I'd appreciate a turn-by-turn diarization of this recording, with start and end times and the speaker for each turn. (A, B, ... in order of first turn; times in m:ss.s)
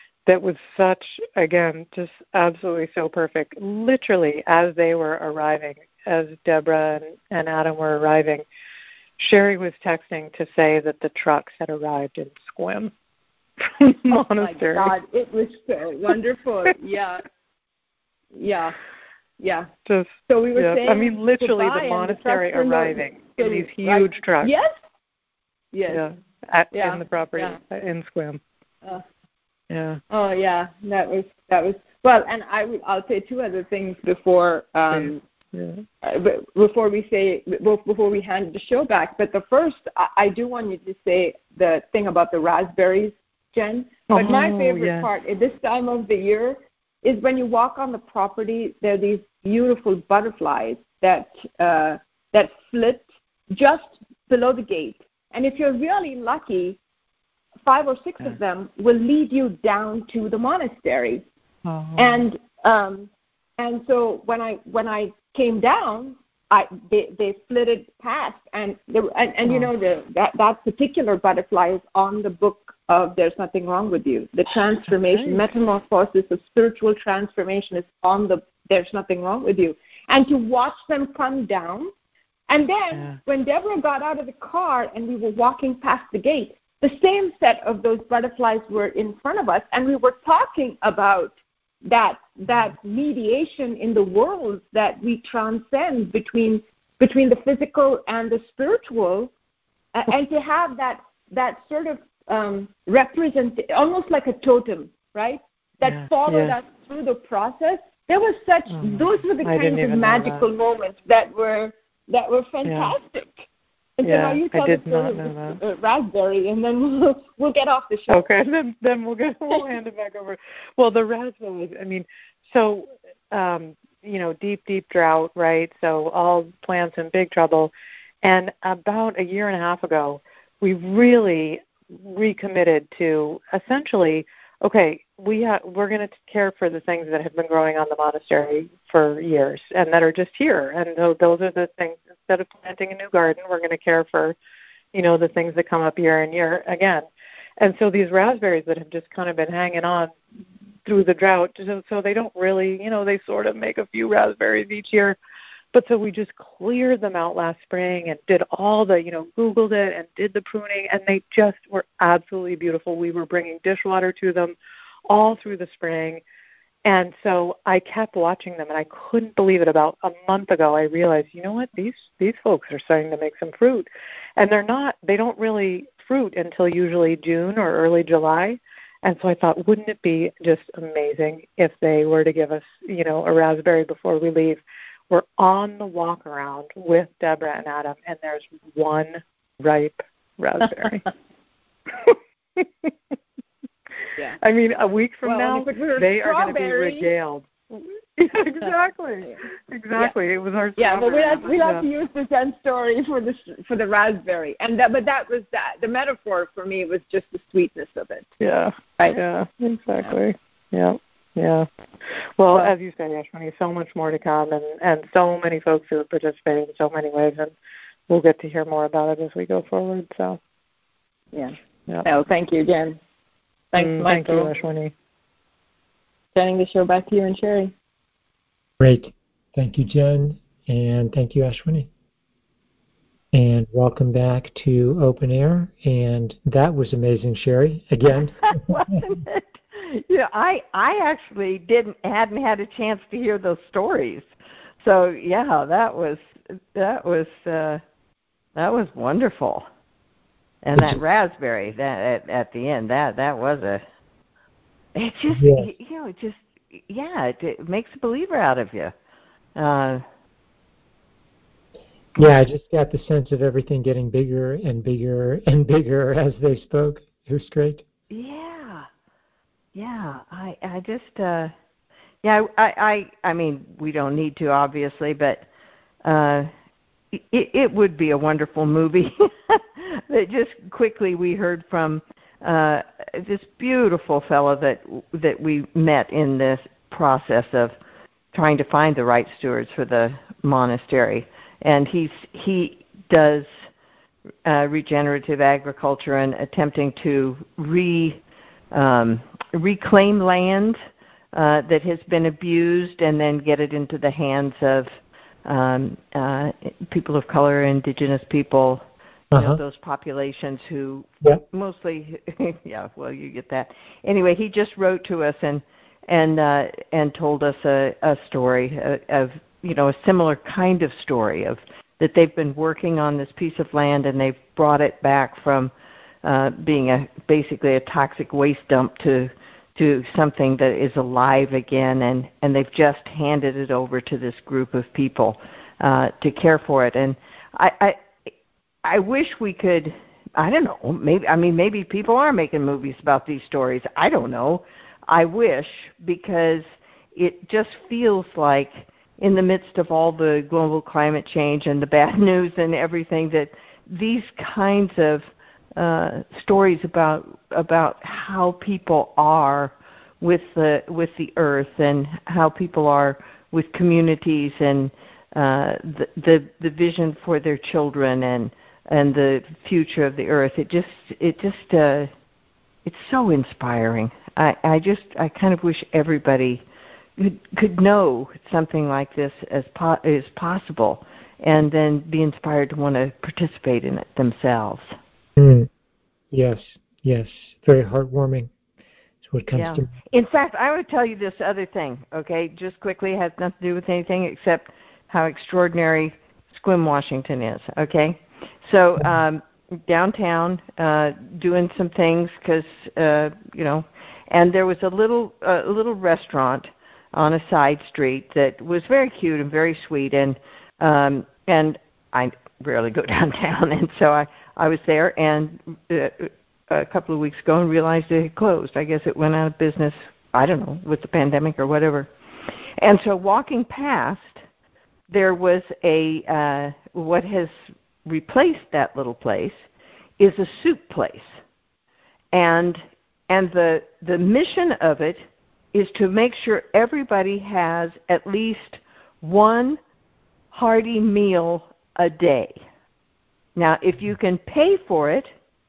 0:00.3-0:08.5 A
0:09.2-0:12.9 A
0:13.6-0:14.9 A
0:14.4-0:17.2 B
0:18.4-0:18.8 B
0:19.4-0:19.7 B
0:19.9-0:24.5 A
0:20.3-0:24.7 B
0:25.7-0:26.0 B
0:25.9-0:28.4 A
0:26.7-0:27.6 B
0:29.7-0:30.0 A
0:30.1-0:35.2 B
0:34.9-0:35.8 A
0:36.0-0:56.8 B
0:44.1-0:45.1 A
0:57.6-1:01.2 B
1:01.7-1:02.3 A
1:02.0-1:21.9 B
1:15.0-1:15.5 A
1:22.5-1:31.4 B
1:31.9-1:39.3 B
1:39.9-1:53.5 B
1:45.8-1:46.6 A
1:48.7-1:50.5 A
1:52.7-1:52.9 A
1:54.0-1:58.2 B
1:54.0-1:55.6 A
1:58.1-2:24.4 A
2:24.9-2:27.1 A
2:27.6-2:30.1 A
2:30.9-2:35.2 A
2:35.7-2:44.6 A
2:45.1-2:46.2 A
2:46.8-3:11.1 A
3:12.0-3:13.2 A
3:14.0-3:21.9 A
3:15.2-3:17.1 B
3:20.8-3:28.3 B
3:28.4-3:31.7 A
3:32.4-3:37.5 A
3:38.1-3:40.4 A
3:42.1-3:43.0 B
3:43.7-3:44.5 B
3:43.8-3:44.9 A
3:46.4-3:47.7 B
3:48.8-3:51.9 C
3:53.3-3:58.7 C
3:58.1-4:04.3 D
4:04.8-4:07.8 D
4:08.6-4:09.7 D
4:10.6-4:13.8 D
4:15.0-4:18.9 D
4:15.3-4:15.7 C
4:19.6-4:20.0 D
4:22.2-4:27.8 C
4:28.1-4:28.9 D
4:29.8-4:31.5 D
4:32.2-4:35.5 D
4:36.0-4:36.5 D
4:37.1-4:47.8 D
4:48.3-4:53.5 D
4:54.4-4:58.2 D
4:58.7-5:00.8 D
5:01.3-5:04.9 D
5:05.4-5:25.7 D
5:09.3-5:09.6 C
5:26.2-5:38.3 D
5:38.8-6:12.1 D
6:12.8-6:16.6 D
6:17.2-6:25.0 D
6:25.4-6:25.7 C
6:26.3-6:28.5 C
6:29.2-6:29.9 C
6:29.5-7:04.4 D
7:05.1-7:07.5 D
7:08.0-7:09.7 D
7:10.2-7:11.4 D
7:12.3-7:19.8 D
7:20.5-7:22.6 D
7:23.6-7:25.3 D